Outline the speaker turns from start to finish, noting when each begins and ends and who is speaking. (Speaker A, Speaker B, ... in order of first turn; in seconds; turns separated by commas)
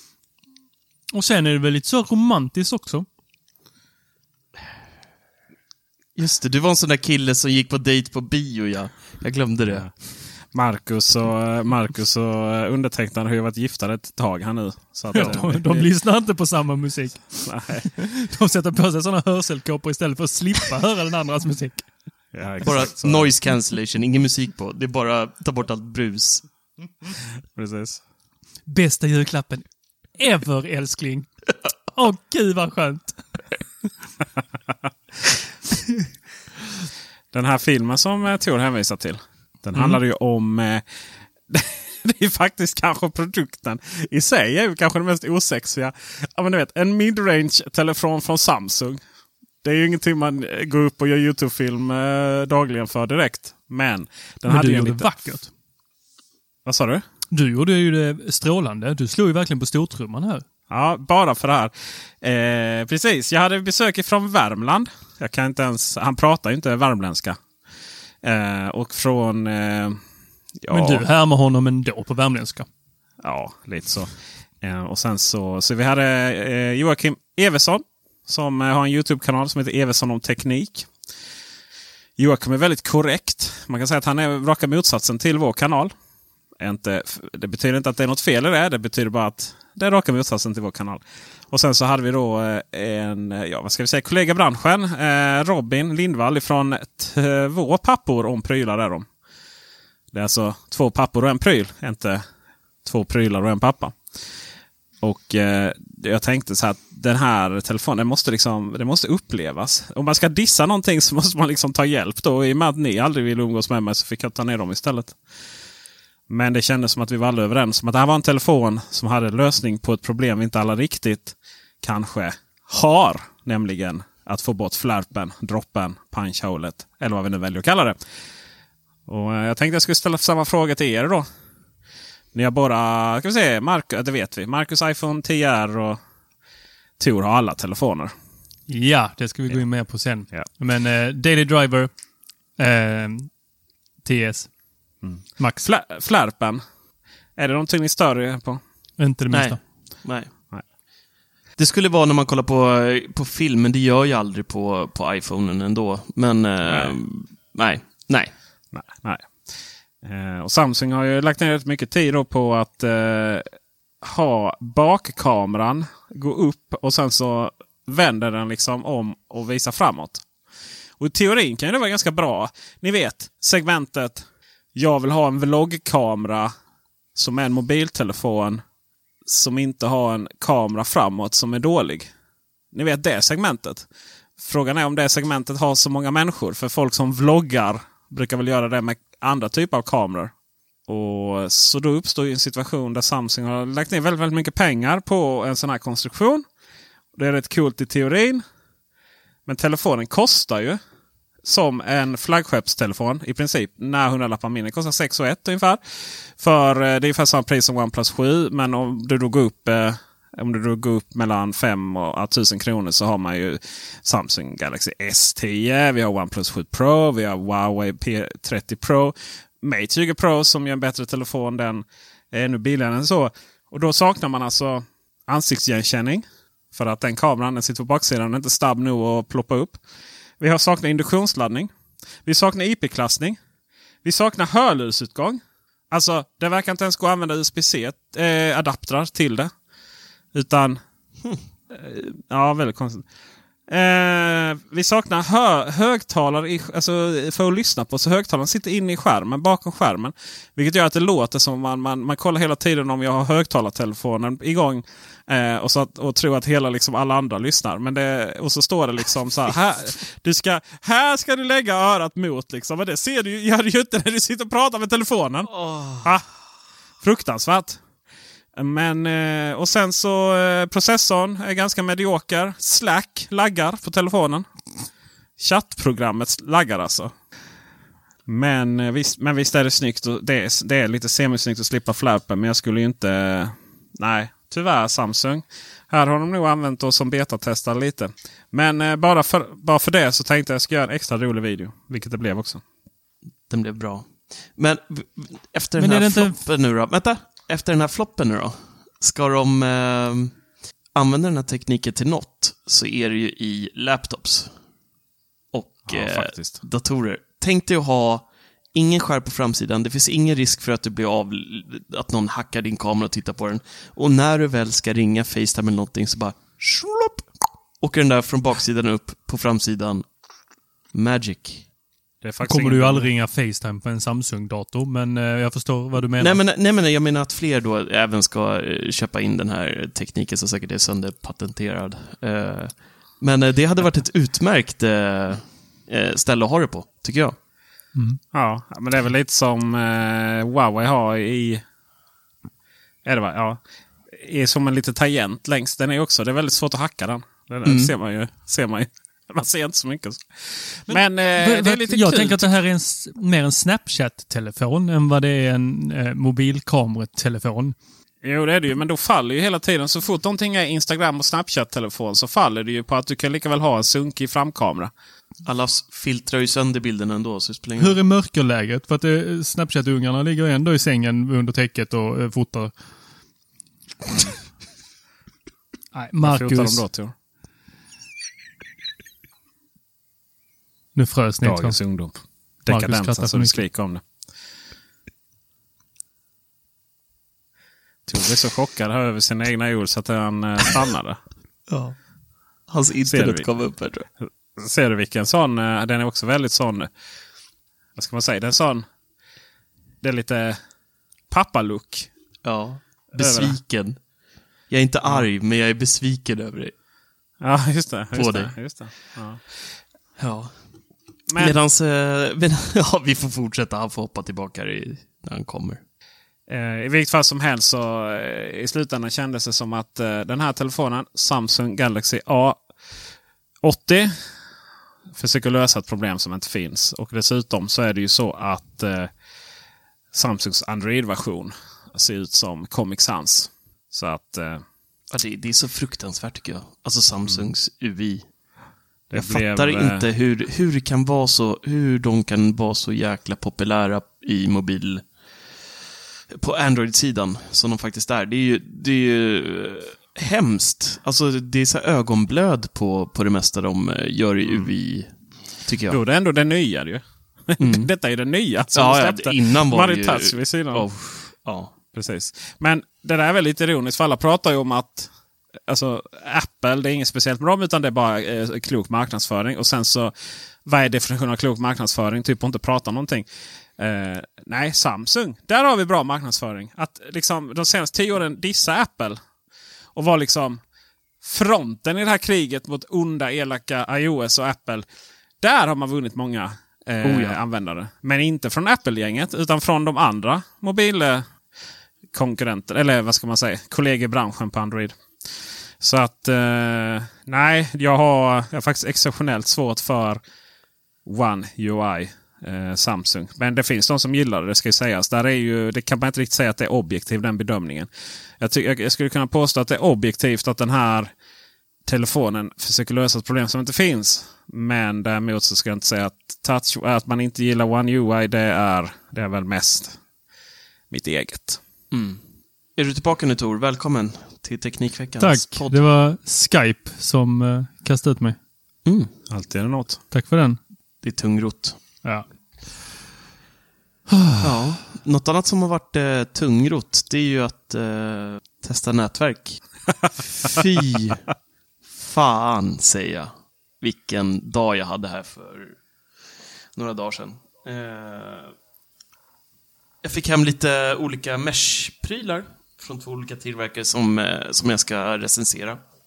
Speaker A: 1.1-3.0, Speaker B: 6.2-9.9, Speaker C: 9.7-15.9, Speaker A: 15.1-21.9, Speaker C: 17.4-17.9, Speaker C: 22.3-23.3, Speaker B: 22.6-26.4, Speaker C: 27.5-28.0, Speaker A: 28.7-31.3, Speaker A: 31.9-33.2, Speaker C: 37.3-40.8, Speaker C: 41.5-49.0, Speaker C: 49.6-55.1, Speaker A: 54.5-55.5, Speaker C: 56.6-57.0, Speaker A: 57.3-60.4, Speaker C: 60.7-67.4, Speaker C: 68.2-70.0, Speaker C: 70.6-71.0, Speaker A: 70.7-72.7, Speaker C: 73.2-74.1, Speaker C: 74.6-80.9, Speaker C: 82.2-85.9, Speaker C: 86.6-99.1, Speaker C: 100.1-102.2, Speaker C: 102.8-104.0, Speaker C: 105.0-115.2, Speaker C: 116.3-128.0, Speaker C: 129.1-131.3, Speaker C: 132.3-136.0, Speaker C: 137.0-138.1, Speaker A: 138.7-141.9, Speaker A: 142.6-143.3, Speaker A: 144.0-144.5, Speaker C: 145.0-146.6, Speaker A: 145.4-145.7, Speaker C: 147.3-148.6, Speaker A: 149.0-149.6, Speaker B: 149.3-150.3, Speaker B: 151.6-158.3, Speaker C: 156.7-156.9, Speaker C: 158.7-163.5, Speaker C: 164.0-170.2, Speaker C: 171.0-176.5, Speaker C: 177.1-178.6, Speaker C: 179.2-182.1, Speaker C: 182.7-183.8, Speaker C: 184.4-190.3, Speaker C: 190.9-196.4, Speaker C: 197.1-198.4, Speaker C: 199.4-200.8, Speaker C: 201.4-229.8, Speaker C: 230.4-231.7, Speaker C: 232.2-233.4, Speaker C: 234.0-235.4, Speaker C: 235.9-239.5, Speaker C: 240.3-240.8, Speaker C: 241.7-243.0, Speaker C: 243.7-265.5, Speaker B: 265.4-266.2, Speaker C: 267.0-267.8, Speaker C: 268.6-274.4, Speaker C: 275.4-277.1, Speaker C: 278.2-292.6, Speaker B: 293.5-300.4, Speaker A: 295.8-296.4, Speaker B: 300.9-304.5, Speaker B: 305.5-317.3, Speaker C: 305.9-306.6, Speaker B: 317.8-320.1, Speaker B: 320.9-321.7, Speaker C: 322.2-323.1, Speaker A: 322.4-326.4, Speaker B: 326.2-337.4, Speaker A: 337.9-338.2, Speaker C: 338.3-341.6, Speaker C: 343.0-352.5, Speaker B: 347.6-347.9, Speaker A: 350.9-357.8, Speaker C: 358.2-364.9, Speaker B: 365.4-368.0, Speaker A: 367.8-372.7, Speaker A: 375.9-376.9, Speaker C: 376.2-377.1, Speaker A: 380.9-381.8, Speaker C: 381.4-384.0, Speaker A: 382.6-383.6, Speaker C: 388.1-391.2, Speaker B: 391.7-391.9, Speaker B: 392.7-394.1, Speaker C: 393.1-393.5, Speaker C: 394.6-396.9, Speaker C: 397.9-398.9, Speaker C: 400.0-400.6, Speaker C: 401.3-402.1, Speaker B: 402.4-404.0, Speaker C: 403.1-403.6, Speaker B: 404.7-406.7, Speaker C: 407.4-409.4, Speaker B: 408.1-409.1, Speaker B: 410.2-410.6, Speaker C: 411.3-411.5, Speaker B: 411.4-415.8, Speaker C: 416.5-422.6, Speaker C: 423.6-424.1, Speaker C: 425.1-429.1, Speaker C: 430.1-434.6, Speaker B: 435.1-438.3, Speaker C: 437.2-437.5, Speaker C: 439.1-440.1, Speaker B: 439.1-445.1, Speaker B: 446.3-456.0, Speaker C: 455.9-460.9, Speaker B: 457.6-457.9, Speaker B: 458.7-461.7, Speaker C: 461.9-465.1, Speaker C: 465.7-473.2, Speaker C: 473.8-479.2, Speaker C: 479.9-480.6, Speaker C: 481.2-484.8, Speaker C: 485.4-491.3, Speaker B: 487.0-487.4, Speaker C: 492.1-500.2, Speaker C: 501.0-511.1, Speaker C: 511.8-520.0, Speaker C: 520.9-521.6, Speaker B: 521.9-525.8, Speaker A: 525.2-528.4, Speaker B: 528.8-529.1, Speaker C: 529.3-530.0, Speaker A: 530.1-530.6, Speaker B: 531.0-531.8, Speaker A: 534.1-534.6, Speaker B: 534.4-539.6, Speaker B: 540.3-541.2, Speaker B: 541.9-545.8, Speaker B: 546.7-548.5, Speaker B: 550.0-555.8